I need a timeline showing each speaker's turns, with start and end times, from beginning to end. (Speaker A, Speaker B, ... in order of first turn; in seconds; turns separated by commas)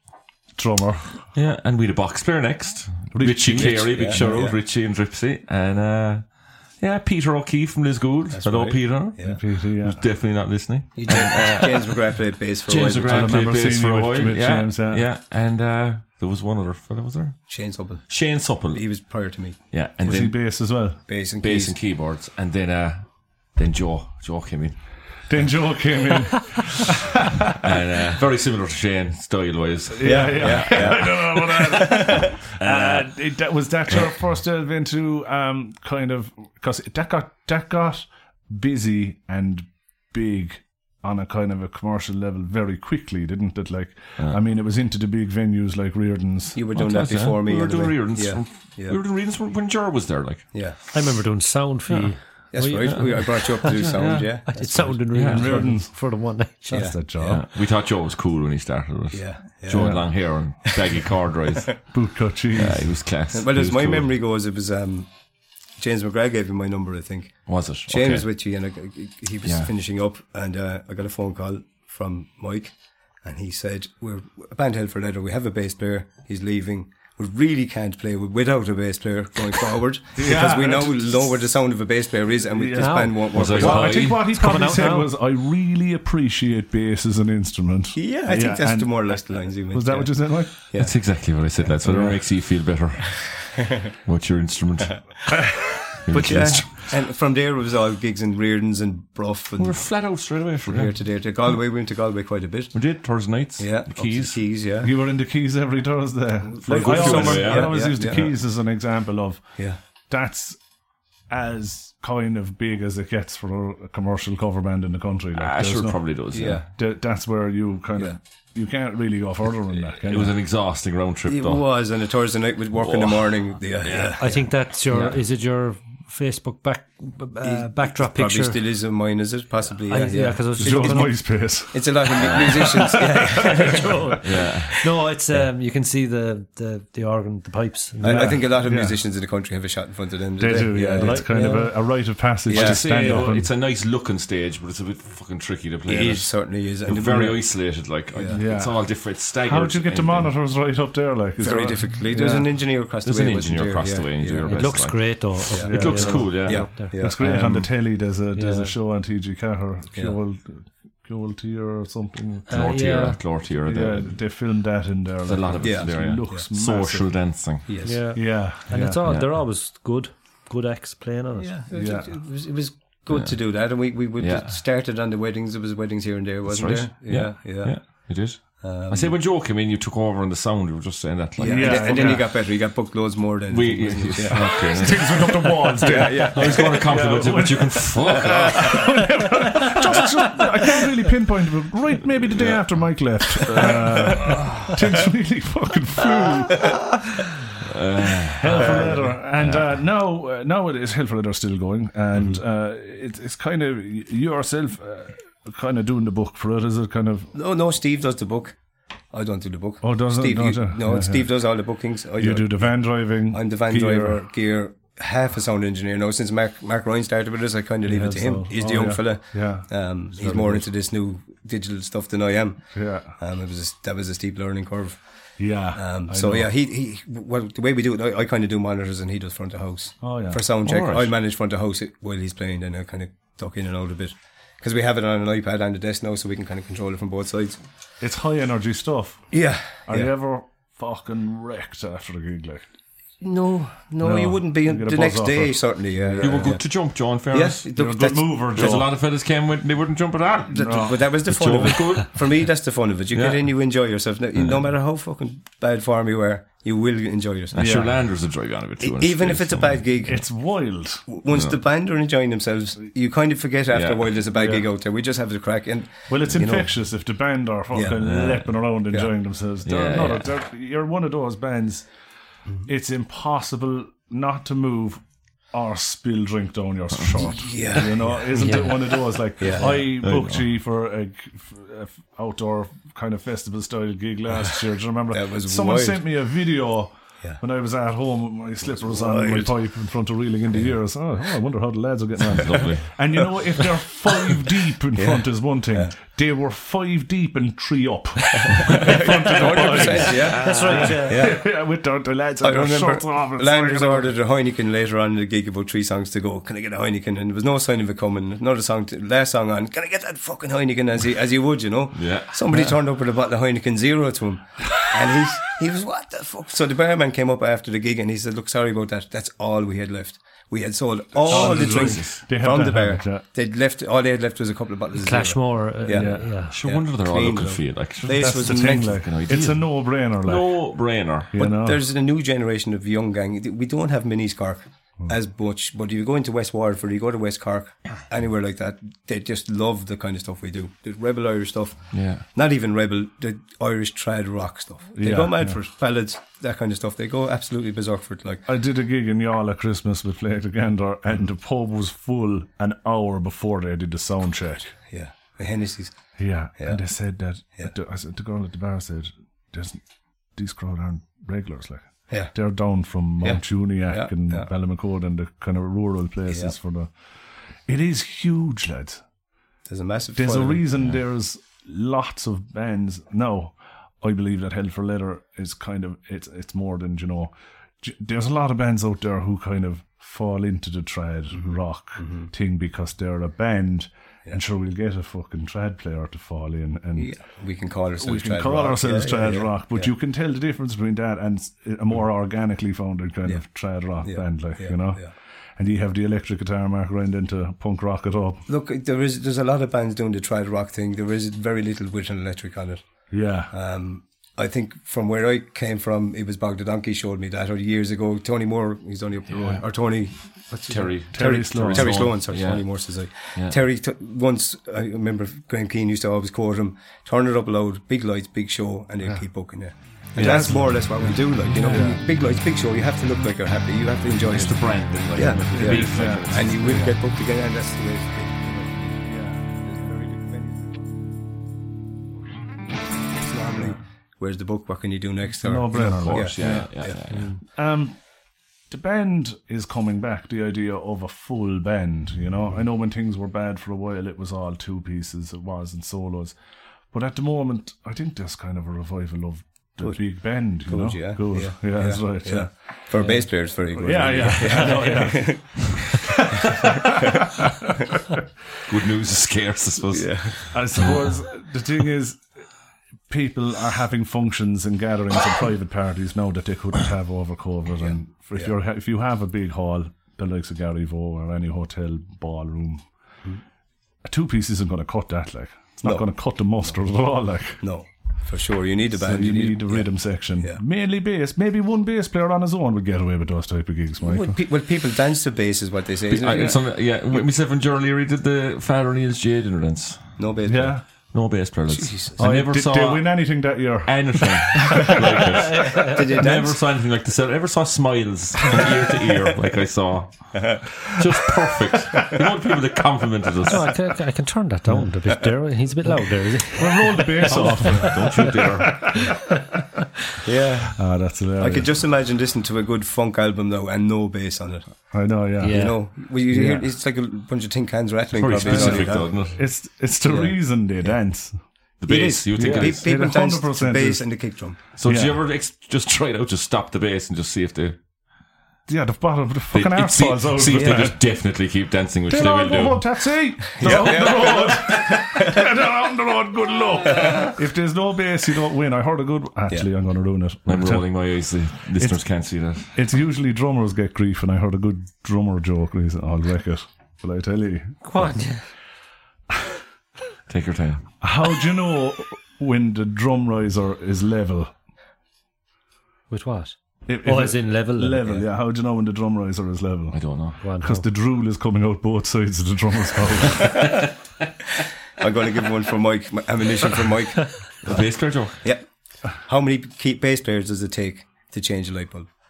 Speaker A: 0.6-1.2, Speaker B: 1.3-12.1, Speaker A: 3.1-4.4, Speaker C: 3.6-4.6, Speaker C: 8.3-9.4, Speaker A: 9.2-10.0, Speaker C: 11.0-13.4, Speaker B: 12.7-17.4, Speaker A: 13.1-15.1, Speaker C: 17.5-18.1, Speaker B: 18.1-19.0, Speaker C: 18.7-19.6, Speaker B: 19.7-20.4, Speaker A: 20.0-21.0, Speaker C: 21.1-21.8, Speaker B: 21.4-24.8, Speaker A: 25.3-27.4, Speaker B: 27.5-31.1, Speaker A: 29.9-46.6, Speaker C: 30.0-32.4, Speaker B: 32.6-33.1, Speaker C: 46.5-49.0, Speaker B: 46.8-50.6, Speaker C: 50.5-50.8, Speaker D: 50.9-56.9, Speaker C: 52.5-55.0, Speaker B: 52.8-53.1, Speaker B: 53.7-54.0, Speaker B: 55.1-55.6, Speaker A: 55.3-56.0, Speaker A: 56.7-57.4, Speaker C: 56.7-57.4, Speaker B: 57.2-61.9, Speaker C: 59.1-60.1, Speaker A: 59.7-60.1, Speaker A: 61.9-62.9, Speaker B: 62.5-64.0, Speaker C: 63.3-65.1, Speaker C: 65.8-84.1, Speaker B: 67.5-68.3, Speaker B: 69.5-69.7, Speaker A: 80.2-81.1, Speaker A: 82.6-90.6, Speaker D: 82.7-85.1, Speaker B: 83.3-84.3, Speaker C: 87.9-91.0, Speaker B: 90.7-96.9, Speaker A: 91.8-92.2, Speaker A: 95.3-95.7, Speaker C: 96.1-100.0, Speaker B: 99.6-100.9, Speaker C: 100.7-102.8, Speaker B: 102.7-104.4, Speaker C: 103.6-104.9, Speaker A: 104.8-110.6, Speaker C: 106.5-108.3, Speaker B: 106.7-108.2, Speaker A: 111.3-120.3, Speaker B: 115.3-116.6, Speaker C: 116.3-116.7, Speaker B: 120.0-121.7, Speaker C: 121.3-124.5, Speaker B: 122.8-124.2, Speaker D: 124.2-128.6, Speaker C: 127.4-134.2, Speaker D: 129.9-131.2, Speaker A: 130.6-132.8, Speaker B: 132.2-133.0, Speaker D: 133.3-138.4, Speaker B: 134.2-134.9, Speaker C: 138.0-141.6, Speaker A: 138.0-139.0, Speaker A: 140.4-143.5, Speaker D: 140.9-141.7, Speaker C: 142.4-143.2, Speaker B: 142.5-150.3, Speaker C: 145.9-147.6, Speaker C: 148.1-148.4, Speaker A: 148.3-152.5, Speaker C: 151.4-154.9, Speaker B: 153.0-156.8, Speaker D: 154.5-157.6, Speaker C: 155.5-157.7, Speaker A: 155.6-162.5, Speaker D: 158.3-158.8, Speaker D: 162.3-163.2, Speaker B: 162.5-164.2, Speaker A: 163.6-167.1, Speaker B: 165.3-167.7, Speaker C: 165.6-166.4, Speaker C: 167.7-168.0, Speaker D: 167.8-171.6, Speaker A: 168.2-169.0, Speaker C: 171.4-177.8, Speaker A: 171.7-172.1, Speaker B: 173.1-173.4, Speaker B: 174.2-174.6, Speaker B: 176.5-182.2, Speaker C: 178.6-179.2, Speaker C: 181.4-184.7, Speaker A: 181.5-182.3, Speaker B: 183.5-189.0, Speaker A: 184.3-196.9, Speaker C: 185.8-187.3, Speaker C: 188.1-188.8, Speaker B: 192.3-192.6, Speaker B: 197.7-199.7, Speaker A: 198.4-207.3, Speaker C: 198.6-199.1, Speaker C: 207.3-208.6, Speaker C: 209.1-225.0, Speaker A: 209.8-211.3, Speaker A: 212.2-214.2, Speaker A: 217.8-220.7, Speaker A: 222.7-223.1, Speaker A: 225.4-226.5, Speaker C: 225.7-237.6, Speaker A: 230.0-230.4, Speaker B: 230.6-231.1, Speaker A: 238.0-242.7, Speaker C: 239.3-240.1, Speaker C: 243.2-246.7, Speaker A: 244.0-246.6, Speaker B: 246.2-247.7, Speaker C: 247.3-248.7, Speaker A: 247.7-248.9, Speaker B: 248.5-252.3, Speaker C: 250.5-257.7, Speaker A: 250.6-251.0, Speaker B: 253.1-253.4, Speaker B: 257.5-259.8, Speaker A: 257.6-257.9, Speaker C: 258.8-260.2, Speaker A: 260.0-261.1, Speaker C: 261.1-266.7, Speaker B: 263.7-264.0, Speaker A: 264.4-264.7, Speaker A: 266.1-271.9, Speaker C: 267.7-268.2, Speaker B: 268.0-268.4, Speaker B: 269.6-270.3, Speaker A: 272.6-304.1, Speaker C: 277.2-278.7, Speaker D: 278.4-278.8, Speaker C: 279.4-280.2, Speaker B: 279.9-280.4, Speaker C: 285.1-286.0, Speaker C: 288.7-289.5, Speaker B: 292.3-292.9, Speaker C: 294.9-295.9, Speaker C: 298.4-301.5, Speaker B: 299.3-301.0, Speaker D: 300.1-301.3, Speaker C: 302.4-329.0, Speaker B: 311.9-312.4, Speaker A: 321.2-323.2, Speaker B: 321.3-322.2, Speaker D: 325.0-326.6, Speaker A: 325.9-326.3, Speaker B: 326.5-331.3, Speaker A: 328.2-330.6, Speaker A: 331.3-331.8, Speaker C: 331.4-348.4, Speaker B: 341.9-342.2, Speaker A: 345.0-345.6, Speaker A: 348.5-354.7, Speaker C: 354.9-356.0, Speaker A: 356.2-359.8, Speaker A: 360.4-366.9, Speaker C: 363.2-364.5, Speaker C: 366.3-366.6, Speaker A: 367.7-369.0, Speaker C: 369.7-370.7, Speaker A: 370.2-387.1, Speaker C: 381.3-382.3, Speaker C: 386.9-389.9, Speaker A: 388.0-398.4, Speaker C: 394.0-395.1, Speaker C: 398.5-402.8, Speaker A: 403.1-403.5, Speaker C: 403.5-430.9, Speaker B: 410.7-412.7, Speaker A: 411.1-412.1, Speaker A: 420.1-422.0, Speaker B: 420.2-420.5, Speaker B: 421.5-421.9, Speaker B: 424.3-426.9, Speaker A: 425.5-426.9, Speaker A: 429.1-429.4, Speaker C: 433.1-437.0, Speaker A: 435.4-436.7, Speaker B: 435.8-437.3, Speaker D: 437.1-437.4, Speaker A: 437.4-438.0, Speaker A: 438.7-446.4, Speaker A: 446.9-452.5, Speaker C: 449.8-457.2, Speaker A: 453.8-457.9, Speaker D: 454.4-455.0, Speaker B: 458.7-461.1, Speaker C: 459.9-460.4, Speaker A: 460.5-462.3, Speaker A: 463.1-472.9, Speaker C: 467.8-468.5, Speaker A: 474.1-477.6, Speaker C: 477.6-479.9, Speaker A: 479.0-484.4, Speaker C: 484.0-486.6, Speaker B: 486.1-490.1, Speaker C: 490.2-490.8, Speaker A: 490.5-490.8, Speaker B: 491.1-493.2, Speaker C: 491.7-492.2, Speaker A: 492.2-495.0, Speaker B: 493.9-503.7, Speaker D: 495.5-496.0, Speaker C: 495.8-496.6, Speaker C: 500.3-500.6, Speaker D: 503.4-508.7, Speaker A: 506.6-509.4, Speaker B: 507.3-509.0, Speaker C: 510.2-510.8, Speaker A: 510.8-511.7, Speaker C: 511.4-514.7, Speaker A: 514.9-515.7, Speaker D: 515.4-515.8, Speaker C: 515.4-519.2, Speaker A: 516.3-516.6, Speaker B: 518.1-519.4, Speaker A: 518.3-521.4, Speaker C: 520.0-521.0, Speaker B: 521.8-522.8, Speaker C: 521.9-524.6, Speaker A: 522.4-524.0, Speaker B: 524.8-527.8, Speaker A: 524.9-525.2, Speaker A: 528.7-531.0, Speaker B: 529.5-532.9, Speaker C: 530.5-530.9, Speaker A: 532.1-540.9, Speaker C: 533.6-535.5, Speaker C: 536.9-537.3, Speaker B: 540.5-542.7, Speaker A: 542.7-547.8, Speaker D: 547.8-548.5, Speaker B: 550.3-550.9, Speaker A: 551.0-554.5, Speaker D: 556.1-558.2, Speaker A: 556.9-563.8, Speaker B: 559.9-560.4, Speaker D: 560.4-560.9, Speaker C: 565.0-567.8, Speaker B: 567.6-568.4, Speaker C: 569.2-572.1